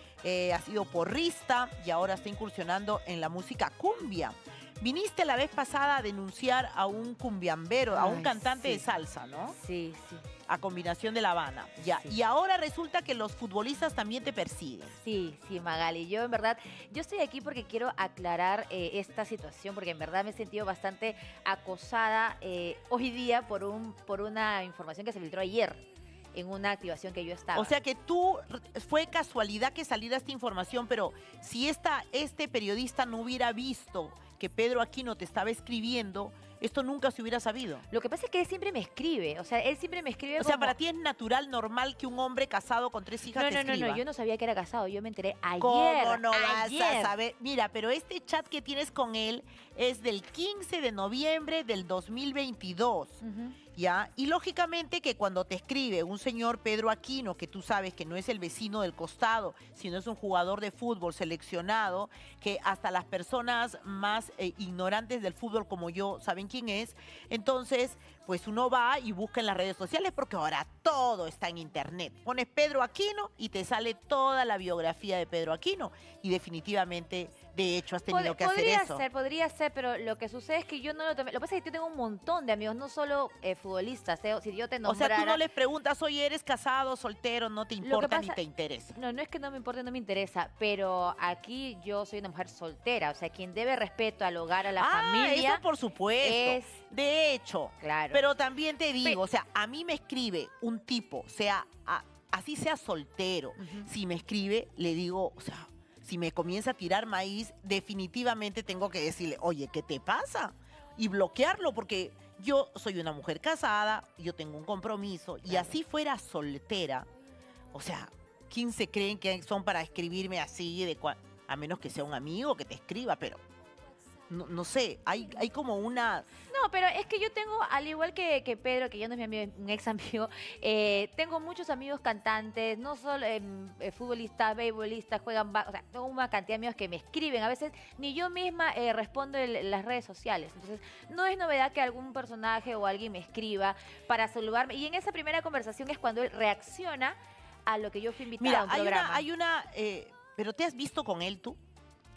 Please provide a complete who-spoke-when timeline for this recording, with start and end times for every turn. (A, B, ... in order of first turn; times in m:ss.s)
0:00.2-0:09.6 A
0:07.9-0:08.8 B
0:09.5-0:10.3 B
0:10.5-0:15.0 A
0:11.8-0:12.2 B
0:14.9-0:25.8 B
0:26.3-0:27.7 B
0:27.6-0:37.9 A
0:37.9-0:40.8 B
0:40.4-0:44.0 A
0:43.3-0:47.2 B
0:45.6-0:53.2 A
0:53.2-0:53.6 B
0:53.8-1:19.0 A
1:18.1-1:25.4 B
1:24.9-1:29.0 A
1:27.8-1:28.4 B
1:29.0-1:35.6 B
1:34.8-1:57.1 A
1:36.2-1:36.8 B
1:37.8-1:38.2 B
1:43.6-1:43.9 B
1:55.5-1:55.8 B
1:57.7-2:03.4 A
2:04.3-2:06.3 A
2:06.5-2:27.2 B
2:27.7-2:29.3 B
2:28.4-2:31.6 A